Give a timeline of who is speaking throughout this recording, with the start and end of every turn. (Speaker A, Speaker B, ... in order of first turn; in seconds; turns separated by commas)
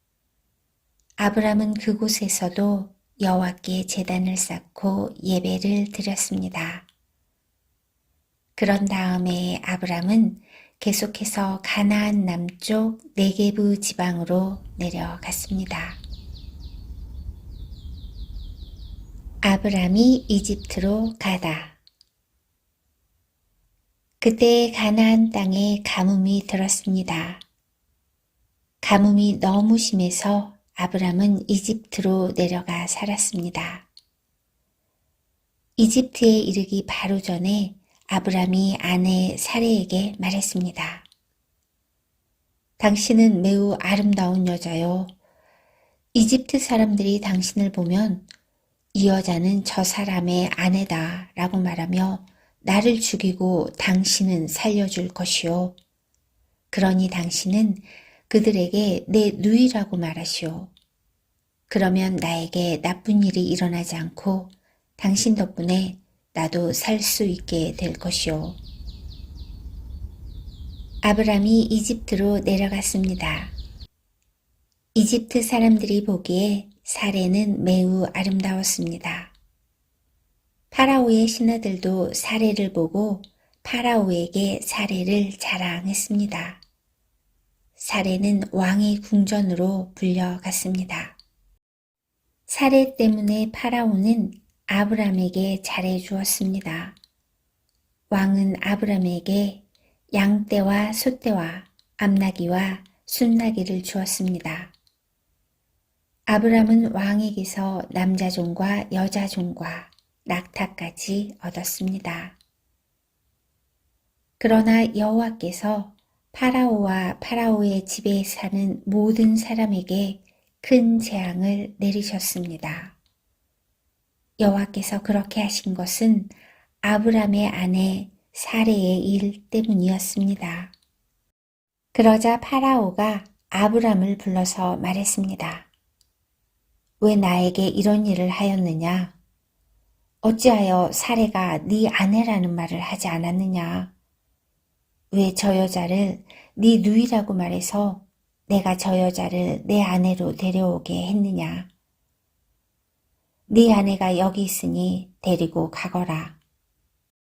Speaker A: 1.2-6.8, Speaker A: 8.6-16.0, Speaker A: 19.4-21.8, Speaker A: 24.2-27.4, Speaker A: 28.8-33.9, Speaker A: 35.8-41.0, Speaker A: 42.8-45.1, Speaker A: 46.1-48.2, Speaker A: 48.9-55.8, Speaker A: 56.7-60.7, Speaker A: 61.7-68.6, Speaker A: 71.0-73.5, Speaker A: 74.9-79.3, Speaker A: 80.7-86.6, Speaker A: 87.8-91.2, Speaker A: 92.5-97.0, Speaker A: 98.1-99.6, Speaker A: 100.1-104.7, Speaker A: 106.3-112.4, Speaker A: 114.4-122.9, Speaker A: 124.4-126.3, Speaker A: 126.8-130.7, Speaker A: 131.9-135.7, Speaker A: 137.0-139.1, Speaker A: 140.2-143.9, Speaker A: 145.1-151.7, Speaker A: 153.5-156.4